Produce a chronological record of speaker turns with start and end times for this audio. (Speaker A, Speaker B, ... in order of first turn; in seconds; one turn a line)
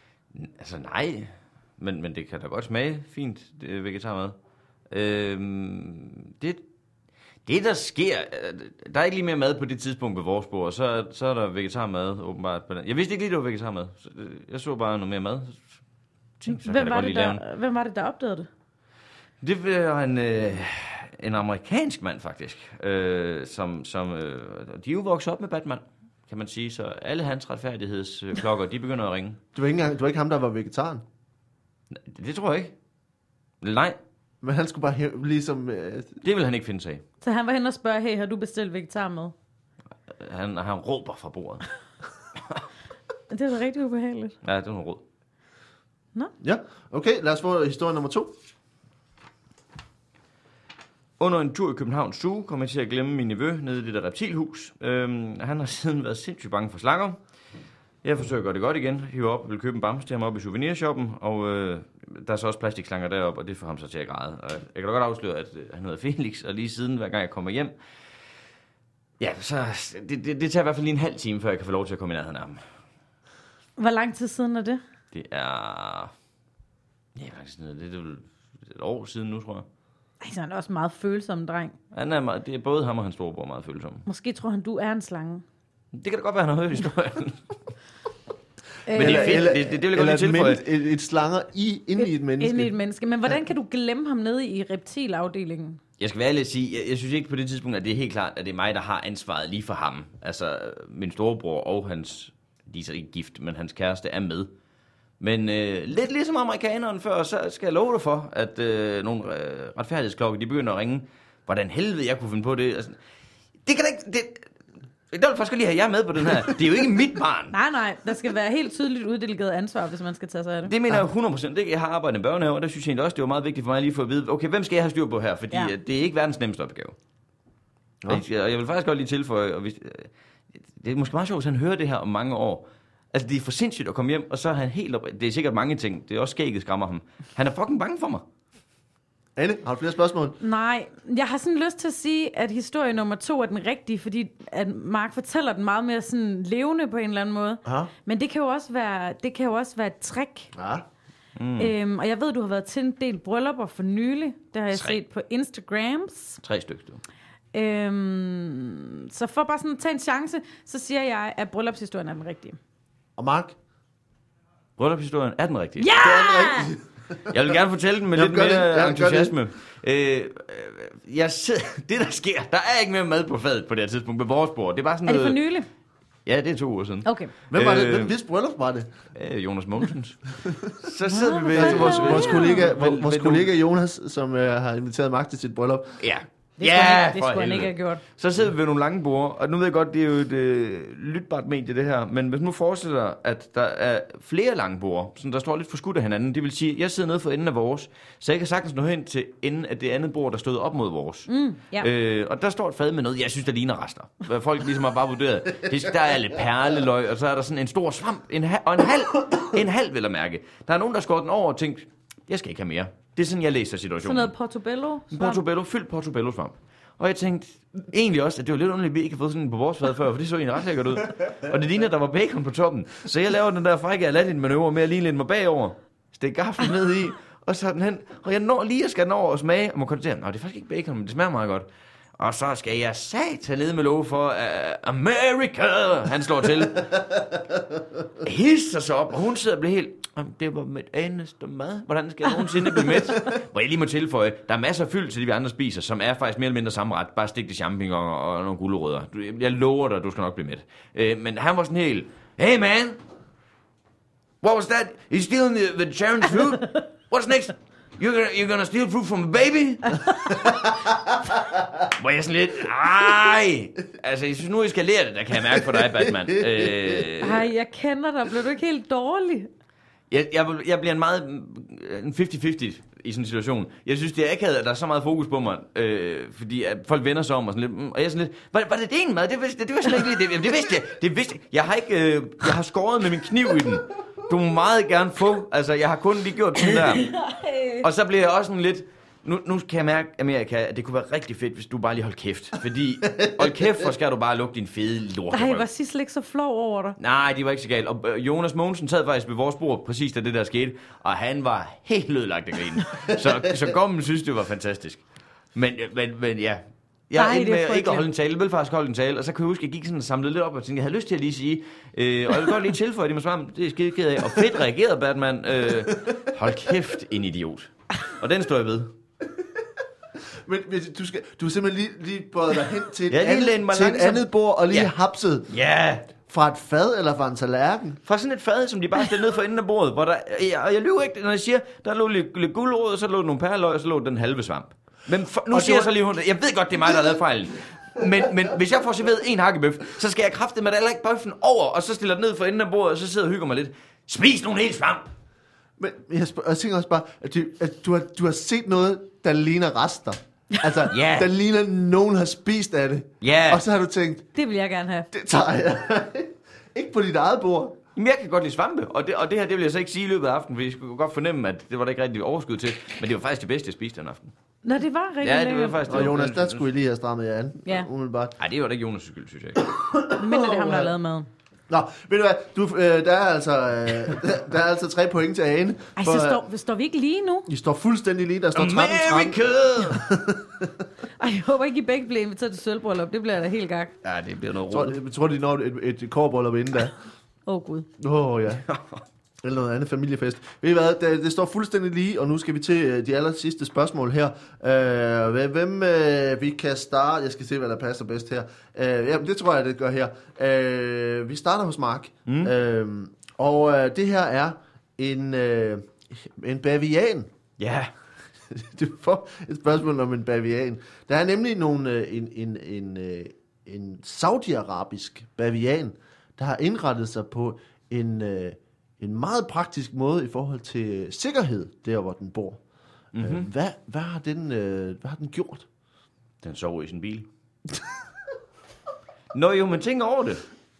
Speaker A: 0.3-4.3
Speaker A: 4.9-6.6
Speaker A: 7.4-15.6
Speaker A: 16.4-17.4
Speaker B: 16.5-18.5
Speaker A: 19.4-29.4
Speaker C: 29.5-31.0
Speaker A: 31.9-32.7
Speaker A: 33.6-34.0
Speaker C: 34.4-36.2
Speaker A: 36.2-37.0
Speaker B: 37.2-39.3
Speaker A: 40.1-41.6
Speaker B: 43.3-44.4
Speaker A: 44.4-45.0
Speaker C: 46.4-48.3
Speaker A: 51.2-57.2
Speaker A: 58.0-67.7
Speaker A: 69.2-72.6
Speaker B: 73.8-74.8
Speaker A: 75.1-76.1
Speaker A: 77.1-79.7
Speaker B: 80.2-81.8
Speaker A: 81.9-84.0
Speaker B: 84.1-85.4
Speaker A: 85.9-87.5
Speaker B: 88.9-89.5
Speaker A: 88.9-90.6
Speaker C: 88.9-92.7
Speaker B: 92.0-95.8
Speaker A: 96.0-104.5
Speaker A: 105.2-113.0
Speaker A: 113.6-114.5
Speaker A: 115.1-117.6
Speaker B: 117.5-120.7
Speaker A: 120.6-127.0
Speaker A: 128.1-138.2
Speaker C: 139.4-140.4
Speaker B: 140.4-150.5
Speaker C: 147.6-147.9
Speaker C: 150.5-150.8
Speaker A: 151.3-151.7
Speaker B: 151.6-156.4
Speaker A: 154.7-155.0
Speaker A: 156.4-157.0
Speaker B: 157.5-162.6
Speaker C: 163.2-163.5
Speaker A: 164.8-166.0
Speaker B: 165.8-166.7
Speaker C: 166.0-167.3
Speaker A: 167.3-175.4
Speaker C: 168.1-169.3
Speaker B: 175.1-175.7
Speaker A: 176.2-178.1
Speaker B: 177.0-177.3
Speaker C: 177.5-178.9
Speaker A: 179.1-180.2
Speaker C: 180.4-180.8
Speaker A: 180.8-183.5
Speaker B: 181.0-182.7
Speaker C: 181.5-186.0
Speaker A: 186.0-214.3
Speaker B: 186.6-188.0
Speaker B: 201.3-201.9
Speaker B: 214.0-215.4
Speaker A: 215.1-237.3
Speaker A: 238.2-253.0
Speaker A: 254.4-260.1
Speaker A: 261.8-267.5
Speaker B: 267.2-269.5
Speaker A: 270.1-287.2
Speaker B: 287.1-287.9
Speaker A: 287.8-295.7
Speaker C: 293.1-293.5
Speaker B: 295.3-297.0
Speaker A: 297.0-305.0
Speaker A: 305.5-318.9
Speaker B: 307.1-308.1
Speaker C: 315.9-316.3
Speaker C: 320.4-325.5
Speaker A: 323.1-324.9
Speaker A: 325.5-326.1
Speaker C: 326.3-328.0
Speaker A: 328.0-345.1
Speaker C: 335.5-335.9
Speaker C: 345.8-354.3
Speaker A: 350.9-351.3
Speaker A: 353.2-353.6
Speaker B: 354.3-355.1
Speaker C: 355.1-357.8
Speaker A: 357.9-364.3
Speaker B: 364.6-365.9
Speaker A: 365.2-366.6
Speaker C: 365.9-368.4
Speaker A: 368.4-369.6
Speaker C: 369.6-370.9
Speaker B: 370.1-371.3
Speaker C: 371.7-376.4
Speaker B: 376.0-377.5
Speaker C: 377.5-380.8
Speaker A: 378.5-380.1
Speaker B: 381.2-383.9
Speaker A: 384.0-384.9
Speaker C: 384.7-386.9
Speaker B: 387.4-387.9
Speaker C: 388.0-388.6
Speaker A: 388.6-389.0
Speaker C: 389.4-407.3
Speaker A: 402.2-402.5
Speaker A: 407.6-407.9
Speaker C: 408.5-422.6
Speaker A: 423.1-423.5
Speaker C: 423.2-425.7
Speaker A: 426.4-427.3
Speaker A: 429.3-430.4